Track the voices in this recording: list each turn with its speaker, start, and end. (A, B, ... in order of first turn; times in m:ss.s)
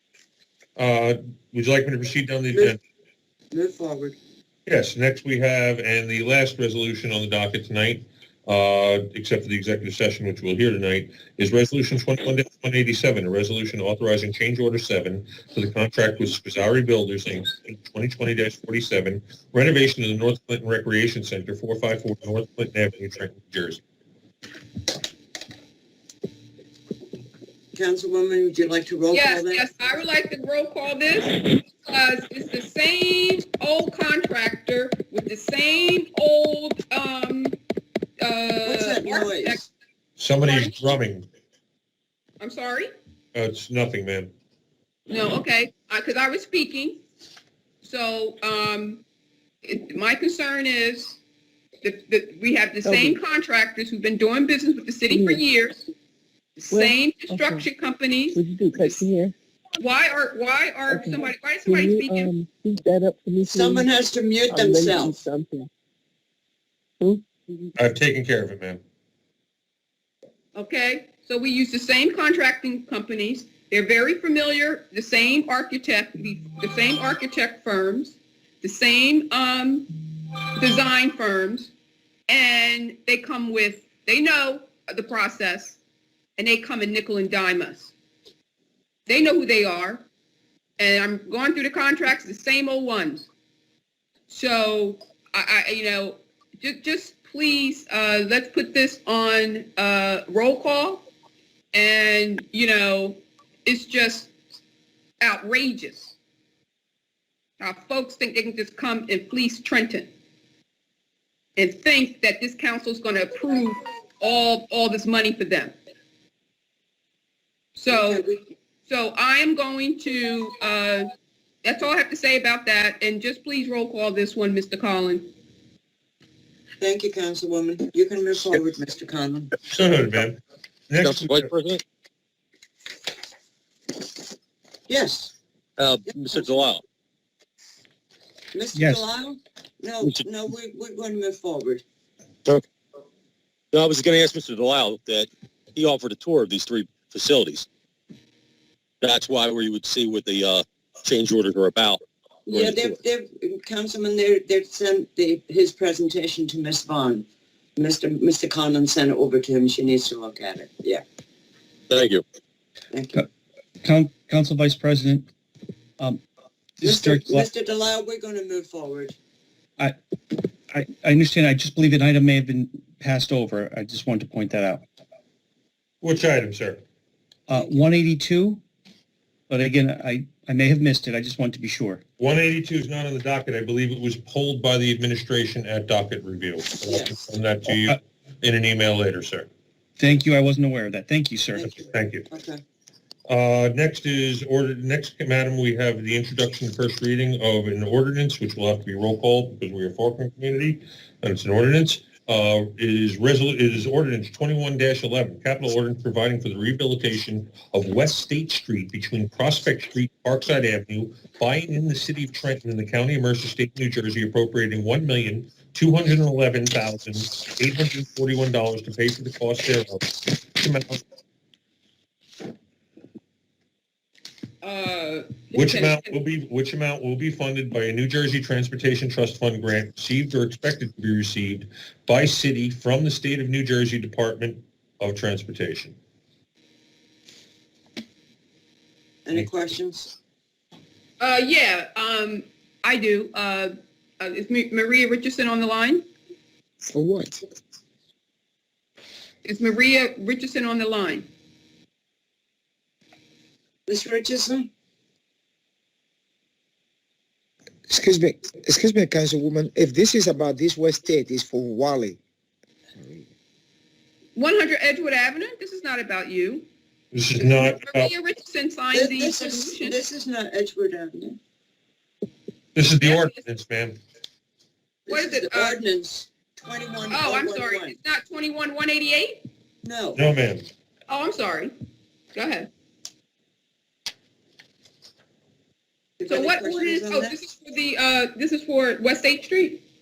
0:00.8-0:02.8 A
0:03.5-0:04.2 B
0:04.7-0:23.8 A
0:27.7-0:29.6 B
0:29.1-0:37.6 C
0:38.2-0:39.6 C
0:38.6-0:39.7 B
0:40.2-0:41.3 A
0:40.4-0:40.9 C
0:42.4-0:42.9 C
0:43.3-0:44.3 A
0:45.1-0:47.0 C
0:47.8-0:49.0 C
0:49.6-0:51.2 C
0:51.8-0:55.9 C
0:52.8-0:53.2 D
0:55.1-0:55.4 D
0:56.6-0:59.1 C
0:56.7-0:57.6 D
0:58.4-0:59.3 D
0:59.8-1:02.3 C
1:00.9-1:03.9 D
1:03.4-1:05.2 B
1:04.5-1:05.7 D
1:07.0-1:07.7 D
1:07.8-1:08.8 A
1:10.6-1:19.9 C
1:20.6-1:21.7 C
1:22.3-1:25.8 C
1:26.4-1:27.9 C
1:29.1-1:30.0 C
1:30.8-1:33.3 C
1:34.3-1:41.1 C
1:41.7-1:44.3 C
1:45.2-1:46.1 C
1:47.6-1:50.1 C
1:51.6-1:55.8 C
1:57.8-1:58.2 C
1:57.9-1:58.4 B
1:58.9-2:01.1 C
2:01.6-2:05.3 C
2:06.8-2:09.5 B
2:09.7-2:10.4 A
2:10.9-2:11.5 A
2:11.0-2:11.8 E
2:14.9-2:15.3 B
2:15.8-2:16.8 E
2:18.5-2:21.8 B
2:18.7-2:19.1 F
2:23.7-2:27.7 E
2:29.0-2:33.0 E
2:32.5-2:37.3 B
2:37.8-2:41.0 B
2:41.9-2:42.2 E
2:42.9-2:43.2 B
2:43.8-2:45.3 F
2:46.8-2:47.5 F
2:46.8-2:49.2 B
2:50.7-2:54.8 F
2:56.0-2:56.8 A
2:57.5-2:58.6 F
2:59.5-3:02.0 F
3:02.2-3:09.5 A
3:06.9-3:07.2 B
3:07.7-3:08.0 F
3:10.0-3:11.7 F
3:11.6-3:12.6 B
3:11.8-3:12.3 A
3:13.3-3:41.0 A
3:44.6-3:46.1 C
3:45.5-3:56.0 A
3:59.2-4:00.1 B
4:01.2-4:06.1 C
4:06.9-4:07.4 G
4:09.4-4:11.3 C
4:13.9-4:14.7 B
4:17.9-4:22.2 G
4:23.0-4:23.3 G
4:24.4-4:26.7 C
4:27.1-4:28.1 A
4:27.4-4:30.0 C
4:28.9-4:31.4 B
4:32.8-4:34.0 A
4:33.0-4:33.4 C
4:35.1-4:38.0 B
4:35.1-4:35.8 C
4:37.1-4:39.4 C
4:39.8-4:40.2 B
4:40.2-4:40.7 A
4:41.1-4:41.7 C
4:42.4-4:42.7 C
4:46.2-4:47.4 B
4:46.3-4:49.8 C